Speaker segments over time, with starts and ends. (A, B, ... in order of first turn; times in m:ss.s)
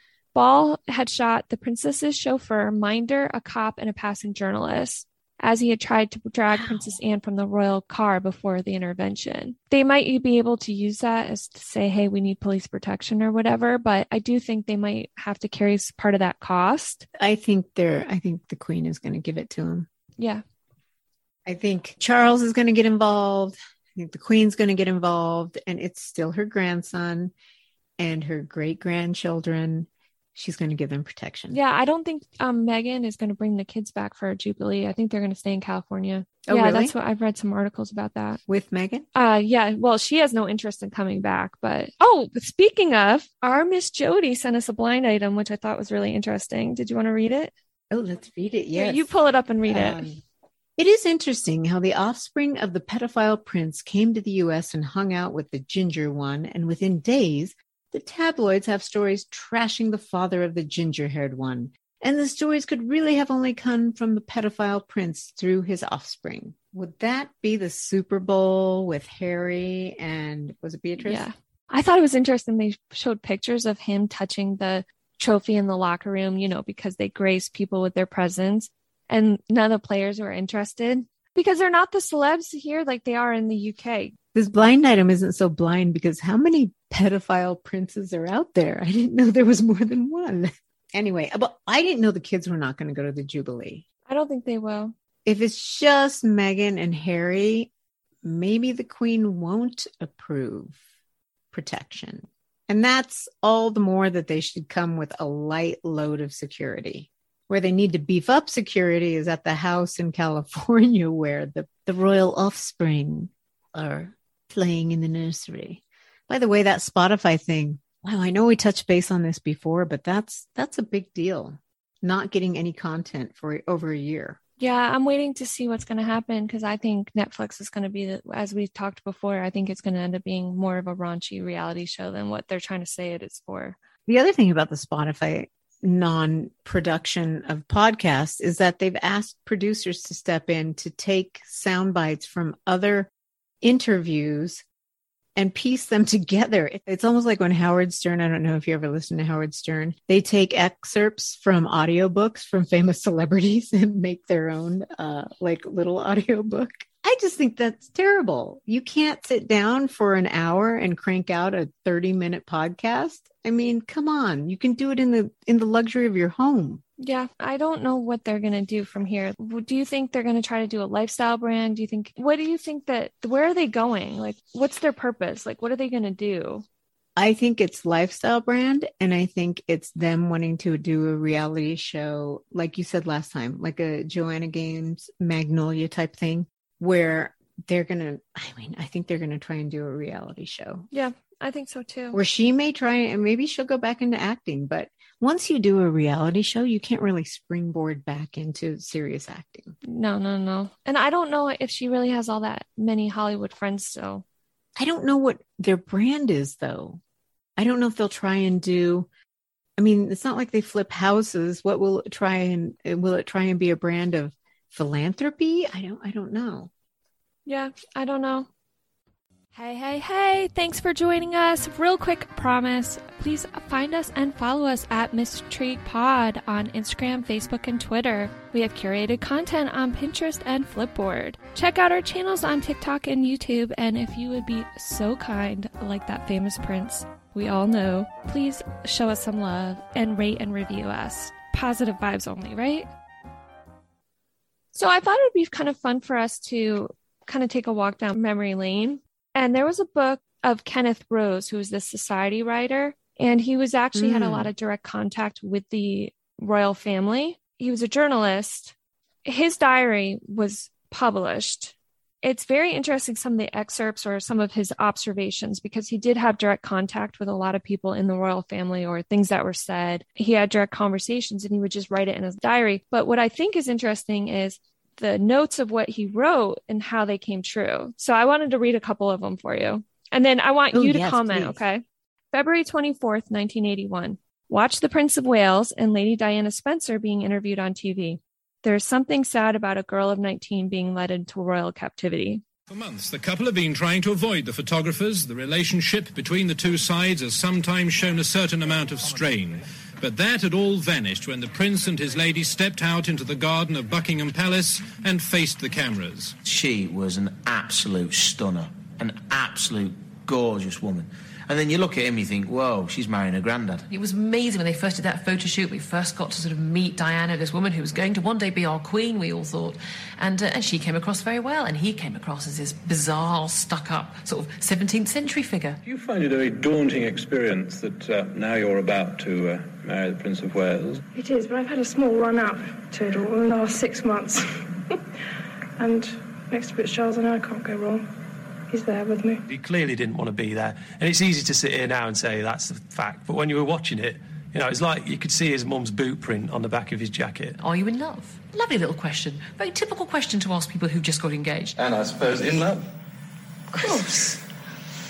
0:00.3-0:17.0 A
0:06.5-0:07.0 B
0:17.2-0:19.9 B
0:20.2-0:20.4 A
0:21.4-0:27.3 B
0:28.0-0:31.6 B
0:31.5-0:38.4 A
0:36.4-0:36.9 B
0:38.5-0:39.0 B
0:39.1-0:47.5 A
0:47.9-0:49.1 B
0:48.7-0:50.0 A
0:49.7-0:50.2 B
0:50.8-1:11.2 B
1:11.0-1:24.1 A
1:24.3-1:33.8 B
1:34.1-1:34.9 A
1:35.2-1:37.7 B
1:38.2-1:40.8 B
1:41.5-2:04.4 B
2:04.6-2:13.8 A
2:14.0-2:23.1 B
2:23.6-2:24.6 B
2:25.4-2:46.8 B
2:47.0-2:56.6 A
2:57.2-3:10.9 B
3:10.9-3:12.2 A
3:12.1-3:19.7 B
3:19.8-3:24.2 A
3:24.8-3:27.0 B
3:27.6-3:29.1 B
3:29.8-3:36.7 B
3:37.4-3:38.5 A
3:39.5-4:02.9 A
4:04.7-4:18.7 A
4:13.9-4:14.5 B
4:19.2-4:52.4 A
4:40.7-4:41.6 B
4:52.7-5:06.3 C
5:06.4-5:13.9 D
5:13.9-5:25.8 E
5:25.9-5:26.9 F
5:27.3-5:27.8 G
5:28.6-5:29.2 F
5:31.1-5:34.4 H
5:35.8-5:38.0 H
5:38.7-5:39.4 H
5:39.5-5:47.6 G
5:47.6-5:51.8 E
5:51.8-5:52.8 F
5:53.7-5:54.4 E